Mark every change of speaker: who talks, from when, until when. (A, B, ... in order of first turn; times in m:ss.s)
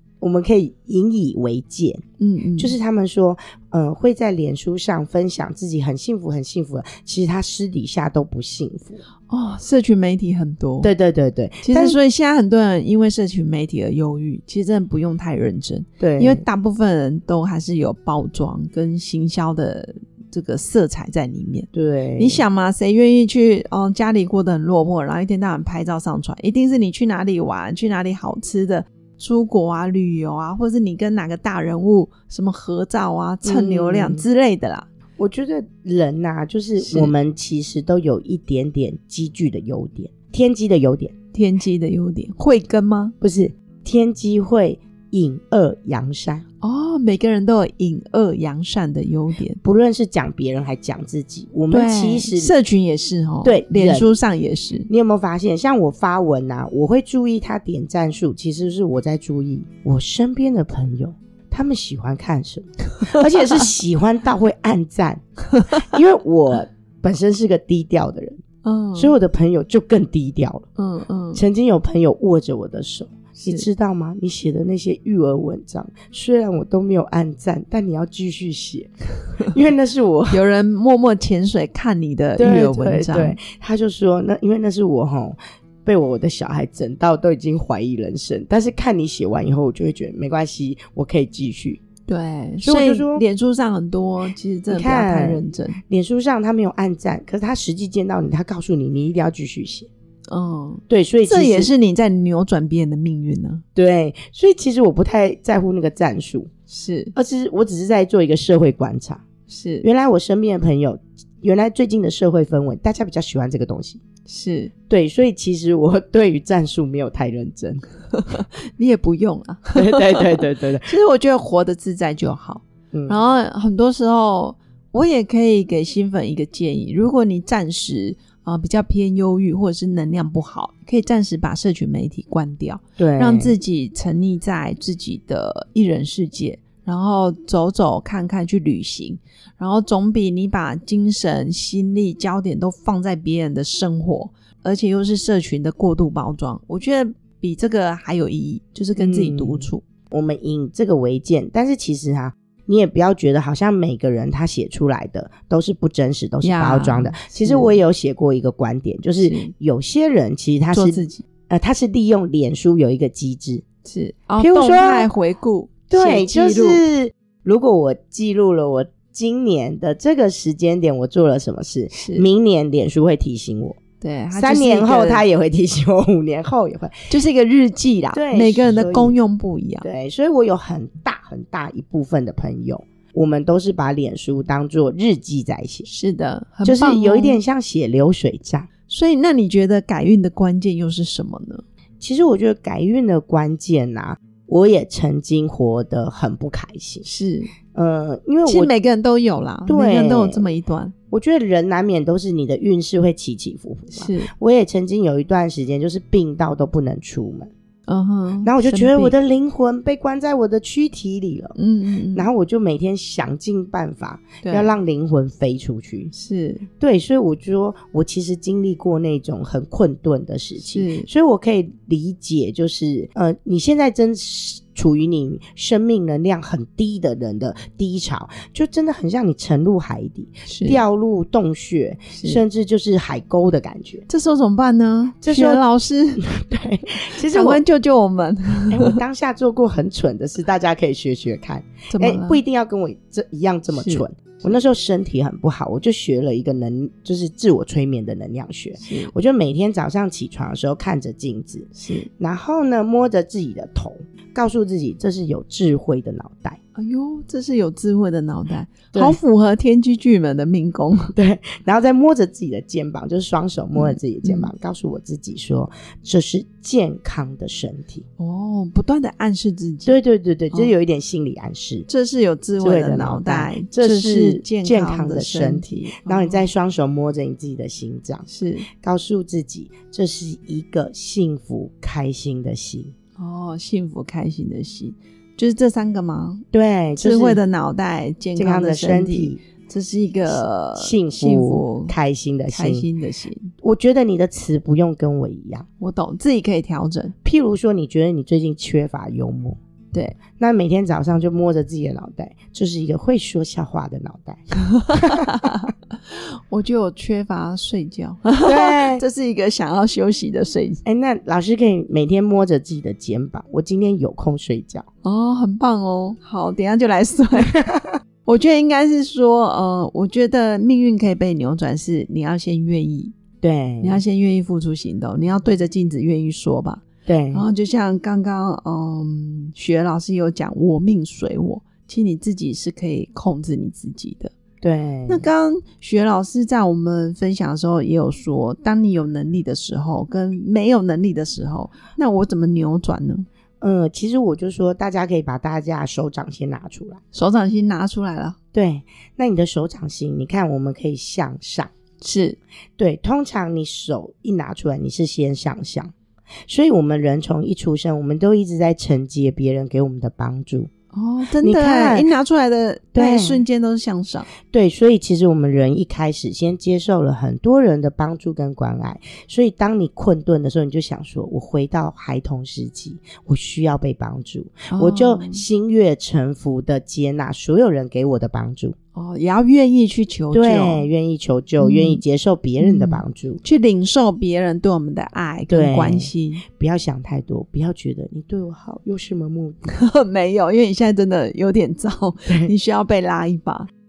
0:00.2-0:02.0 A
0:02.2-0:02.7 B
0:02.6-0:09.0 A
0:09.3-0:10.9 B
0:10.8-0:12.0 A
0:11.6-0:34.9 B
0:16.0-0:16.4 A
0:21.7-0:22.4 A
0:33.4-0:34.2 A
0:35.2-0:41.1 A
0:36.8-0:37.1 B
0:41.3-0:43.1 B
0:43.2-0:46.4 A
0:46.6-0:49.6 B
0:49.6-0:52.5 A
0:51.7-0:54.9 B
0:53.4-0:54.1 A
0:54.9-1:08.4 A
1:08.6-1:09.1 B
1:08.9-1:10.7 A
1:10.8-1:11.4 B
1:11.3-1:18.9 A
1:13.4-1:13.6 B
1:19.4-1:20.4 A
1:20.3-1:23.4 B
1:22.4-1:31.8 A
1:32.1-1:35.8 B
1:32.6-1:33.2 A
1:34.7-1:39.9 A
1:40.3-1:43.6 B
1:40.9-1:41.7 A
1:43.8-1:46.5 A
1:46.7-1:47.1 B
1:47.1-1:49.2 A
1:49.5-1:49.9 B
1:49.8-1:54.0 A
1:54.2-1:54.7 B
1:54.9-1:57.8 A
1:58.1-2:29.8 B
1:59.7-2:00.9 A
2:02.9-2:03.2 A
2:13.0-2:13.6 A
2:29.0-2:43.6 A
2:36.4-2:37.8 B
2:39.2-2:39.5 B
2:40.7-2:41.2 B
2:43.8-2:46.8 B
2:44.4-2:45.1 A
2:45.9-2:53.8 A
2:51.9-2:52.3 B
2:54.0-2:55.2 B
2:54.3-2:57.0 A
2:57.1-2:59.9 B
2:58.1-2:59.2 A
2:59.8-3:05.9 A
3:05.8-3:07.4 B
3:06.6-3:08.7 A
3:08.9-3:11.6 B
3:12.0-3:17.0 A
3:17.0-3:17.5 B
3:17.7-3:18.7 A
3:18.4-3:20.9 B
3:19.6-3:20.5 A
3:21.1-3:27.5 A
3:23.9-3:24.3 B
3:27.9-3:29.1 B
3:28.4-3:31.5 A
3:31.6-3:32.3 B
3:32.1-3:36.1 A
3:34.4-3:34.8 B
3:36.1-3:36.7 B
3:36.8-3:54.0 A
3:40.6-3:41.1 B
3:50.4-3:50.8 B
3:52.1-3:52.4 B
3:54.1-3:56.2 B
3:55.2-3:55.6 A
3:56.2-3:57.6 A
3:56.9-3:59.0 B
3:58.7-4:16.6 A
4:01.9-4:02.4 B
4:03.7-4:04.0 B
4:08.8-4:09.1 B
4:11.7-4:12.1 B
4:16.7-4:21.1 B
4:18.9-4:19.2 A
4:21.1-4:28.0 A
4:23.8-4:24.5 B
4:28.2-4:30.0 B
4:29.8-4:31.9 A
4:31.9-4:36.4 B
4:32.6-4:38.3 A
4:38.3-4:38.7 B
4:38.8-4:42.9 A
4:43.2-4:46.4 B
4:46.5-4:47.4 A
4:47.0-4:52.0 B
4:48.4-4:49.4 A
4:50.3-4:52.8 A
4:52.5-4:53.5 B
4:53.6-4:55.6 A
4:55.8-4:57.1 B
4:57.2-4:59.6 A
5:00.4-5:05.4 A
5:04.8-5:10.8 B
5:08.4-5:09.0 A
5:10.8-5:14.8 A
5:15.0-5:17.7 B
5:17.5-5:17.8 A
5:18.2-5:23.1 B
5:23.4-5:24.0 A
5:23.8-5:34.3 B
5:27.0-5:27.4 A
5:34.6-5:35.3 A
5:35.1-5:43.2 B
5:43.6-5:47.0 A
5:47.1-5:48.4 B
5:48.5-5:51.7 A
5:52.0-5:52.4 B
5:52.8-5:55.9 A
5:56.5-6:00.7 A
6:00.9-6:04.3 B
6:01.4-6:02.1 A
6:02.9-6:03.4 A
6:04.5-6:18.8 A
6:14.7-6:15.4 B
6:18.9-6:20.8 B
6:20.3-6:23.4 A
6:21.6-6:22.0 B
6:22.6-6:26.4 B
6:25.5-6:29.7 A
6:29.7-6:33.7 B
6:32.3-6:32.5 A